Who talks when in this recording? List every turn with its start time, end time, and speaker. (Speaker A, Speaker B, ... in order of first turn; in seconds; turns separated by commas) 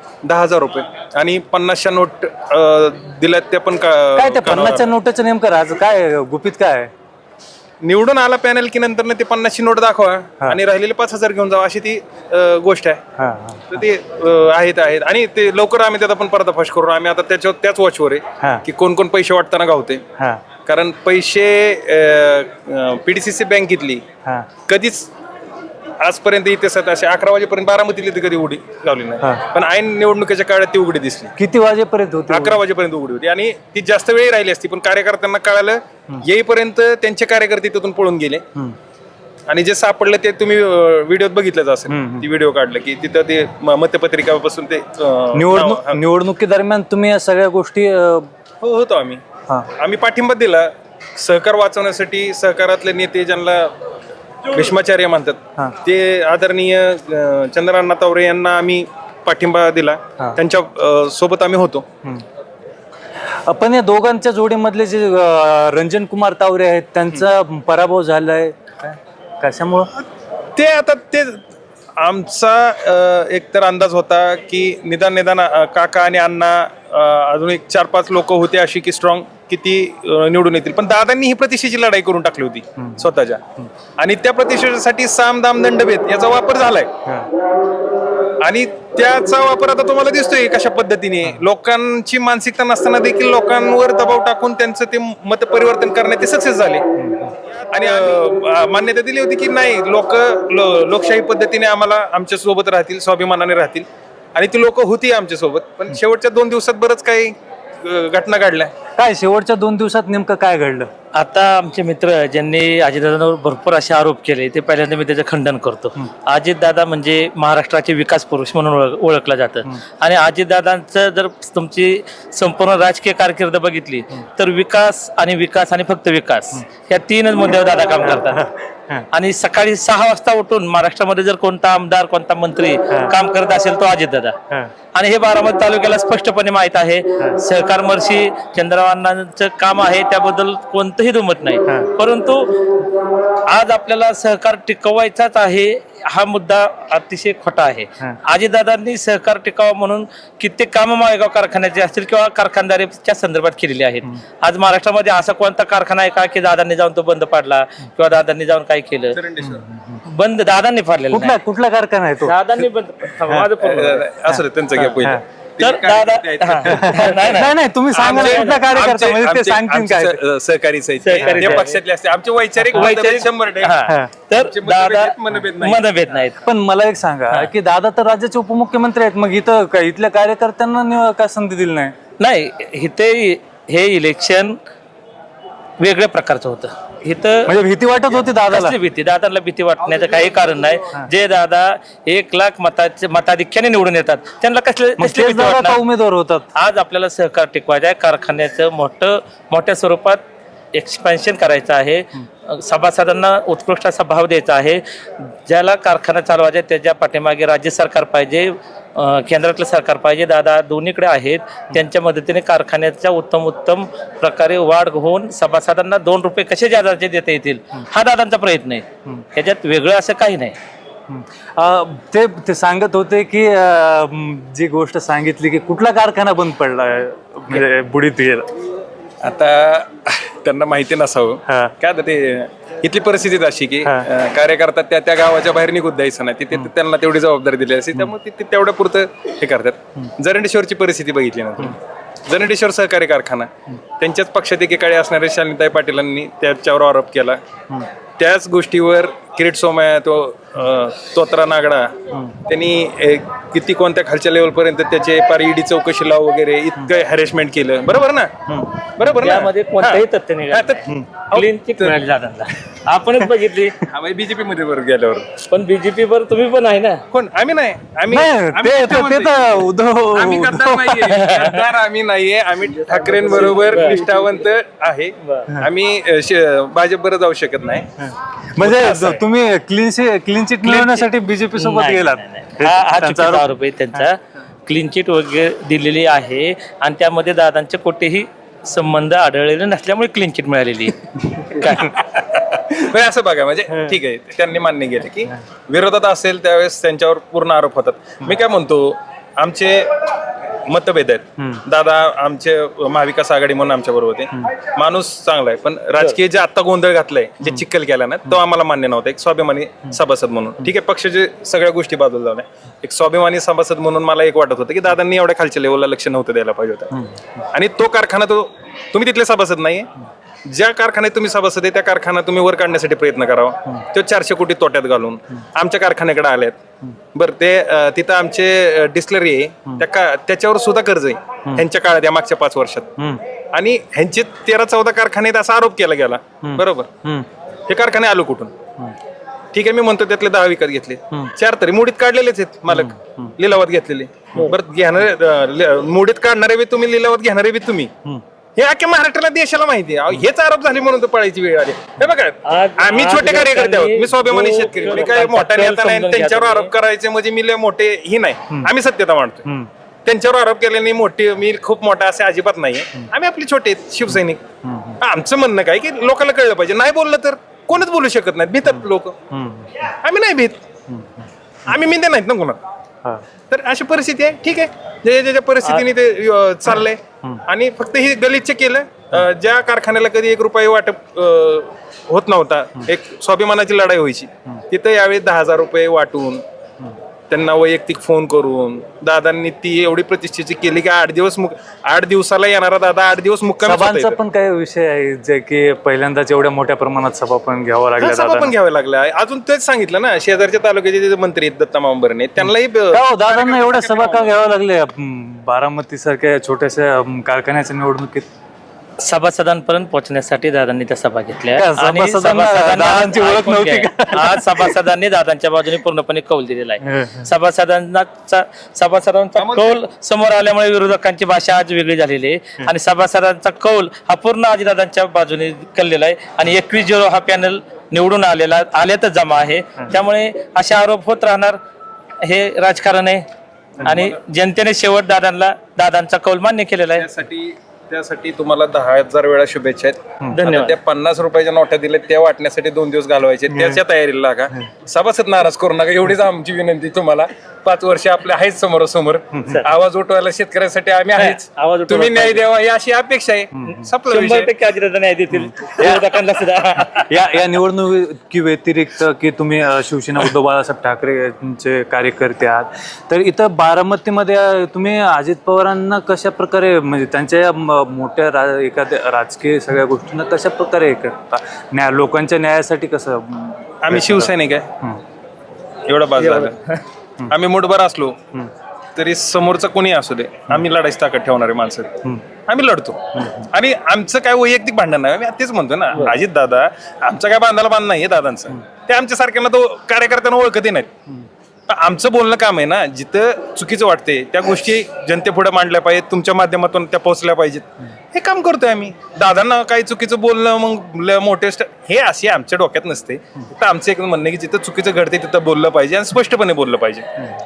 Speaker A: 0.2-4.8, Speaker B: 4.2-6.9, Speaker A: 7.8-13.0, Speaker B: 13.2-13.8, Speaker A: 13.7-20.1, Speaker B: 18.4-18.6, Speaker A: 20.6-24.0, Speaker A: 24.7-25.1, Speaker A: 26.0-31.3, Speaker B: 31.4-32.6, Speaker A: 32.3-38.4, Speaker A: 39.5-46.0, Speaker B: 41.9-42.3, Speaker B: 45.3-48.3, Speaker A: 48.6-53.8, Speaker A: 54.5-61.9, Speaker B: 63.5-69.9, Speaker A: 70.5-71.5, Speaker A: 72.0-83.4, Speaker B: 82.8-83.1, Speaker A: 84.0-87.0, Speaker A: 88.4-96.9, Speaker B: 97.0-97.3, Speaker A: 97.5-108.7, Speaker B: 109.0-110.9, Speaker C: 111.1-128.4, Speaker B: 128.0-129.1, Speaker C: 129.1-134.4, Speaker C: 134.9-142.6, Speaker C: 143.5-159.2, Speaker A: 159.1-159.6, Speaker B: 159.4-160.0, Speaker C: 160.1-161.4, Speaker B: 161.1-162.4, Speaker C: 162.2-164.1, Speaker B: 163.2-163.5, Speaker A: 163.6-167.4, Speaker C: 164.8-165.1, Speaker C: 165.6-168.7, Speaker B: 166.7-170.2, Speaker A: 167.9-173.8, Speaker C: 171.0-171.8, Speaker B: 171.2-171.6, Speaker B: 172.6-172.9, Speaker C: 172.7-176.4, Speaker B: 173.9-174.1, Speaker A: 174.3-175.8, Speaker B: 176.4-181.9, Speaker C: 182.2-184.6, Speaker C: 185.8-187.5, Speaker B: 187.4-188.8, Speaker C: 188.5-195.8, Speaker B: 195.0-196.5, Speaker C: 196.6-200.2, Speaker C: 200.7-220.6, Speaker B: 221.1-228.5, Speaker A: 229.2-247.4, Speaker B: 233.8-234.1, Speaker A: 248.2-261.9, Speaker B: 258.5-258.9, Speaker C: 259.2-263.8, Speaker A: 263.8-265.4, Speaker C: 265.4-267.0, Speaker A: 267.1-277.9, Speaker B: 268.1-271.1, Speaker C: 271.1-271.6, Speaker C: 273.1-274.1, Speaker B: 278.1-284.1, Speaker C: 278.6-279.2, Speaker C: 280.6-292.0, Speaker A: 291.7-300.1, Speaker A: 300.6-319.9, Speaker A: 320.4-326.6, Speaker A: 327.1-333.0, Speaker A: 333.5-336.9, Speaker B: 336.4-337.3, Speaker A: 337.7-338.6, Speaker A: 339.5-347.9, Speaker B: 342.7-343.3, Speaker A: 348.6-359.5, Speaker C: 352.4-356.7, Speaker A: 360.1-364.4, Speaker B: 364.6-365.0, Speaker A: 365.0-369.2, Speaker B: 369.3-369.9, Speaker A: 369.8-370.6, Speaker B: 370.9-371.2, Speaker A: 371.6-372.6, Speaker A: 373.5-386.4, Speaker A: 387.3-394.2, Speaker B: 393.6-398.6, Speaker A: 398.0-404.3, Speaker B: 402.4-408.3, Speaker C: 409.0-431.6, Speaker B: 411.5-414.8, Speaker B: 416.8-417.2, Speaker A: 419.4-419.8, Speaker C: 432.2-433.2, Speaker C: 433.8-437.1, Speaker A: 433.8-434.2, Speaker A: 436.9-454.5, Speaker C: 440.3-440.7, Speaker B: 443.5-443.8, Speaker B: 449.3-449.6, Speaker C: 451.2-452.4, Speaker B: 453.6-453.9, Speaker C: 454.1-457.1, Speaker B: 455.3-456.4, Speaker B: 456.9-475.0, Speaker A: 473.8-474.7, Speaker A: 475.9-476.6, Speaker C: 476.2-476.8, Speaker A: 477.3-478.2, Speaker A: 478.9-490.9, Speaker A: 491.7-507.3